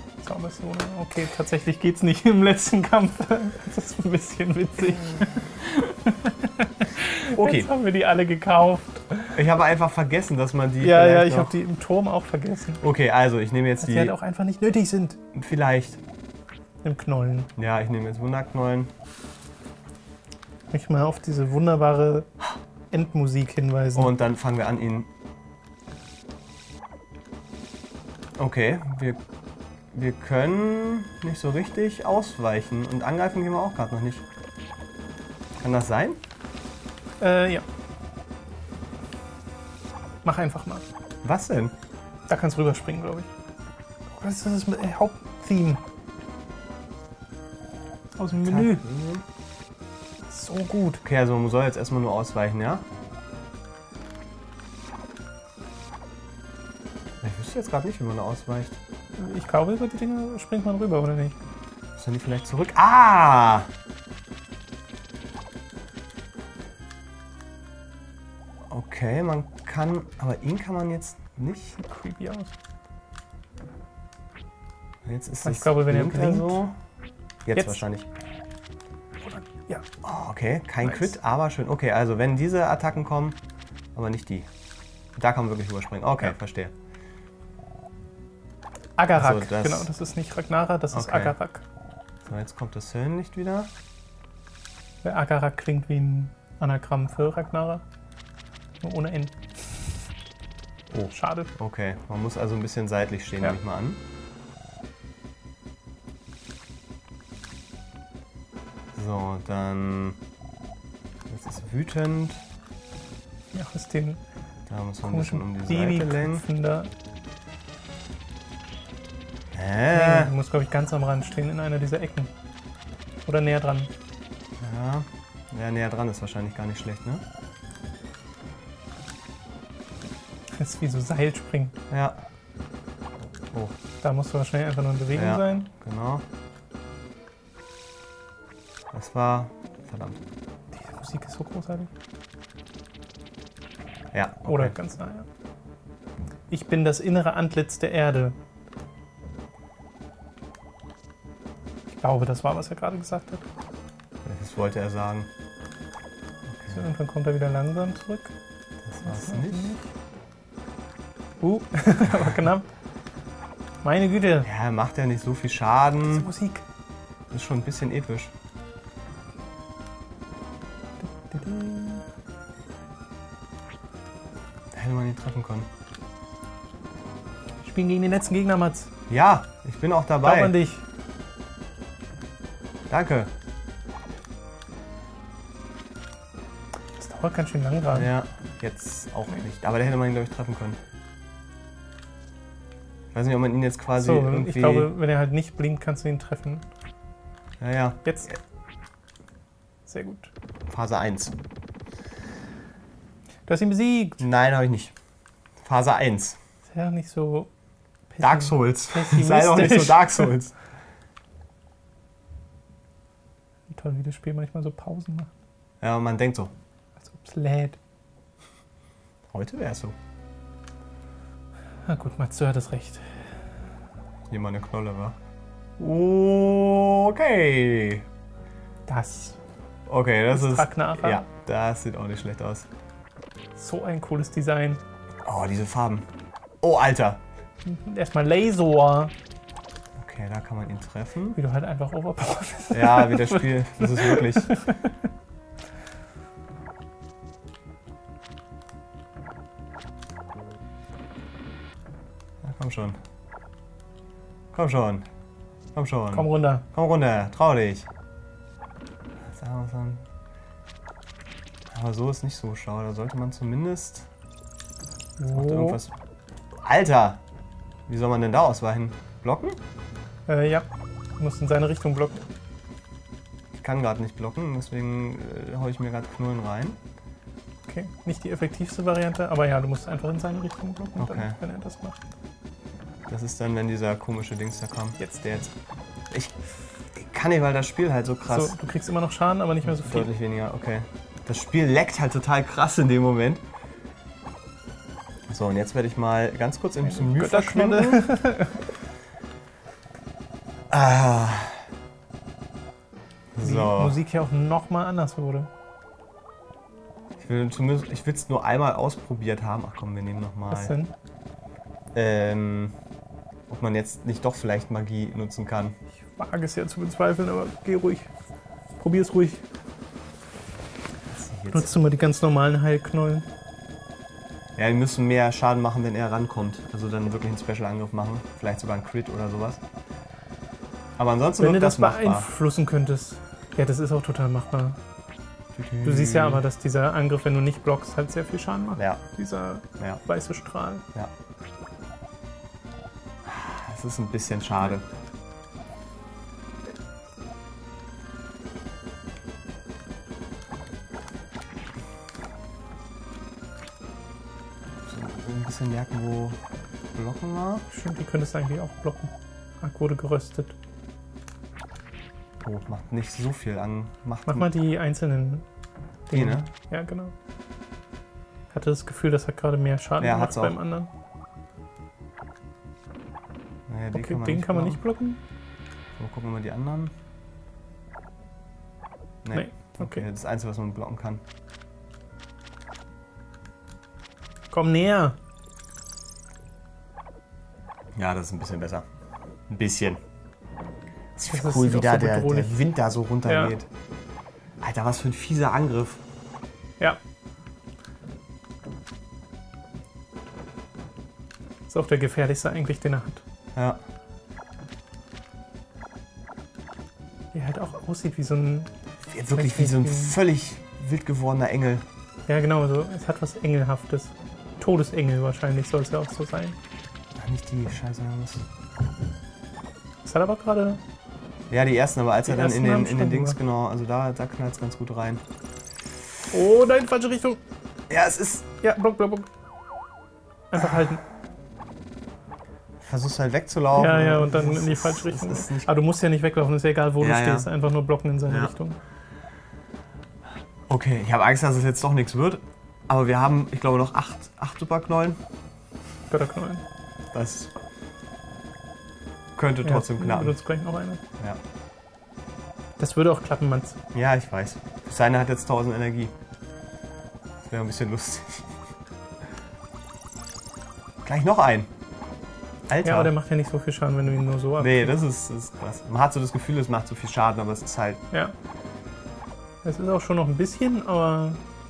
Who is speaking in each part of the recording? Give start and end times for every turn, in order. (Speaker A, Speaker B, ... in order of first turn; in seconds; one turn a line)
Speaker A: 0.2-9.4
Speaker B: 7.3-7.7
Speaker B: 9.3-11.5
Speaker A: 10.8-12.8
Speaker B: 12.8-14.1
Speaker A: 13.8-15.2
Speaker B: 15.3-16.0
Speaker A: 16.8-17.5
Speaker B: 17.6-18.9
Speaker A: 20.7-22.3
Speaker A: 22.9-24.1
Speaker B: 23.9-25.1
Speaker B: 28.4-29.2
Speaker B: 29.9-34.2
Speaker B: 35.6-36.2
Speaker A: 37.2-37.6
Speaker A: 40.2-40.8
Speaker B: 41.2-41.7
Speaker A: 42.3-43.3
Speaker A: 44.1-45.8
Speaker A: 48.2-48.8
Speaker B: 48.3-49.2
Speaker A: 50.3-51.0
Speaker B: 51.0-52.9
Speaker B: 57.2-58.8
Speaker A: 59.2-61.4
Speaker B: 62.0-63.7
Speaker B: 68.7-71.8
Speaker A: 71.8-72.5
Speaker B: 75.0-76.7
Speaker A: 75.4-76.6
Speaker B: 77.5-78.1
Speaker A: 77.5-77.8
Speaker A: 79.2-79.8
Speaker B: 80.0-83.4
Speaker A: 80.8-81.2
Speaker B: 83.9-84.5
Speaker B: 85.2-86.7
Speaker A: 89.0-91.6
Speaker B: 89.1-89.9
Speaker B: 90.9-91.3
Speaker B: 92.2-93.7
Speaker A: 95.0-97.8
Speaker A: 98.8-99.9
Speaker B: 100.9-104.0
Speaker A: 101.1-101.5
Speaker B: 108.9-110.2
Speaker B: 111.3-112.4
Speaker A: 113.5-114.2
Speaker B: 114.7-116.4
Speaker A: 115.0-116.9
Speaker B: 119.5-120.3
Speaker A: 119.9-122.3
Speaker A: 123.2-123.9
Speaker B: 124.6-127.2
Speaker A: 130.6-131.8
Speaker B: 131.9-132.2
Speaker A: 134.0-135.7
Speaker B: 135.1-136.2
Speaker B: 138.9-140.2
Speaker A: 140.7-141.9
Speaker B: 144.1-144.7
Speaker A: 144.5-145.3
Speaker A: 146.5-148.3
Speaker A: 152.0-153.5
Speaker B: 154.2-155.3
Speaker B: 156.5-156.8
Speaker A: 156.7-158.3
Speaker B: 158.8-159.8
Speaker A: 159.0-159.9
Speaker A: 161.4-162.7
Speaker A: 163.8-164.5
Speaker B: 164.4-166.3
Speaker A: 166.1-166.6
Speaker B: 167.3-168.3
Speaker A: 171.0-172.0
Speaker B: 174.7-175.7
Speaker A: 177.6-178.9
Speaker B: 179.1-180.6
Speaker A: 180.2-180.8
Speaker B: 182.9-183.3
Speaker A: 187.0-188.1
Speaker B: 187.9-190.8
Speaker B: 193.1-194.9
Speaker A: 193.9-196.7
Speaker B: 197.6-198.3
Speaker A: 198.1-198.3
Speaker A: 199.8-200.3
Speaker B: 200.7-201.4
Speaker A: 203.5-204.2
Speaker B: 204.2-204.9
Speaker B: 205.6-206.4
Speaker A: 206.7-207.5
Speaker A: 208.1-210.3
Speaker B: 208.2-210.5
Speaker A: 213.7-215.3
Speaker B: 215.8-216.5
Speaker A: 217.0-217.8
Speaker B: 219.3-219.9
Speaker A: 221.8-223.4
Speaker B: 224.3-225.2
Speaker B: 225.8-228.1
Speaker A: 228.9-229.4
Speaker B: 229.9-232.7
Speaker A: 230.3-231.2
Speaker A: 233.6-234.8
Speaker B: 235.2-236.1
Speaker B: 236.6-237.2
Speaker A: 237.6-239.1
Speaker B: 239.9-241.4
Speaker A: 241.3-245.1
Speaker B: 242.7-244.5
Speaker B: 252.4-253.0
Speaker B: 254.5-255.1
Speaker B: 255.7-257.9
Speaker A: 256.1-256.6
Speaker B: 259.2-260.1
Speaker B: 261.7-264.1
Speaker A: 265.2-265.8
Speaker B: 265.3-265.9
Speaker B: 266.6-267.2
Speaker B: 267.9-269.6
Speaker A: 270.3-270.6
Speaker A: 271.2-272.2
Speaker B: 273.5-276.8
Speaker A: 277.7-282.0
Speaker B: 281.0-281.4
Speaker B: 283.1-285.4
Speaker A: 285.0-285.4
Speaker B: 286.9-288.6
Speaker A: 288.3-290.1
Speaker B: 289.6-293.4
Speaker B: 295.3-298.0
Speaker A: 296.8-298.6
Speaker B: 300.7-301.7
Speaker B: 303.3-304.0
Speaker A: 303.4-305.5
Speaker B: 307.2-310.7
Speaker A: 310.5-310.9
Speaker B: 311.9-312.7
Speaker B: 313.5-315.8
Speaker A: 316.0-318.1
Speaker A: 318.8-319.4
Speaker B: 321.1-321.7
Speaker A: 321.5-323.3
Speaker B: 324.6-329.6
Speaker B: 331.0-332.3
Speaker A: 331.4-334.8
Speaker B: 335.5-336.4
Speaker A: 335.8-340.9
Speaker B: 343.2-344.8
Speaker B: 354.8-356.4
Speaker B: 356.9-357.6
Speaker A: 357.7-360.6
Speaker B: 362.4-364.5
Speaker A: 364.3-365.4
Speaker A: 366.1-367.1
Speaker B: 366.1-366.4
Speaker A: 368.5-370.9
Speaker B: 370.0-370.6
Speaker B: 373.7-374.8
Speaker A: 373.9-375.2
Speaker B: 376.0-376.9
Speaker B: 379.2-381.2
Speaker A: 379.3-380.1
Speaker A: 384.5-385.2
Speaker B: 387.9-388.9
Speaker B: 389.5-390.0
Speaker B: 391.1-393.7
Speaker A: 391.3-392.6
Speaker A: 393.2-393.5
Speaker B: 394.6-396.0
Speaker A: 401.7-403.2
Speaker B: 403.5-403.8
Speaker A: 407.3-408.7
Speaker B: 409.1-411.8
Speaker A: 409.3-410.2
Speaker A: 412.3-416.6
Speaker B: 417.1-418.4
Speaker A: 420.0-420.8
Speaker B: 421.5-425.2
Speaker A: 422.3-423.4
Speaker A: 426.3-427.4
Speaker B: 427.9-428.5
Speaker A: 428.6-429.3
Speaker A: 430.5-431.0
Speaker B: 432.8-435.8
Speaker A: 433.7-438.8
Speaker B: 437.0-437.5
Speaker B: 438.3-438.5
Speaker B: 440.7-445.2
Speaker A: 446.1-446.6
Speaker B: 447.1-447.5
Speaker B: 449.4-450.4
Speaker A: 449.6-451.0
Speaker A: 452.8-453.8
Speaker B: 453.9-456.1
Speaker B: 457.5-458.6
Speaker B: 461.0-461.7
Speaker B: 462.7-463.1
Speaker A: 462.8-464.9
Speaker B: 464.6-468.0
Speaker A: 469.6-471.4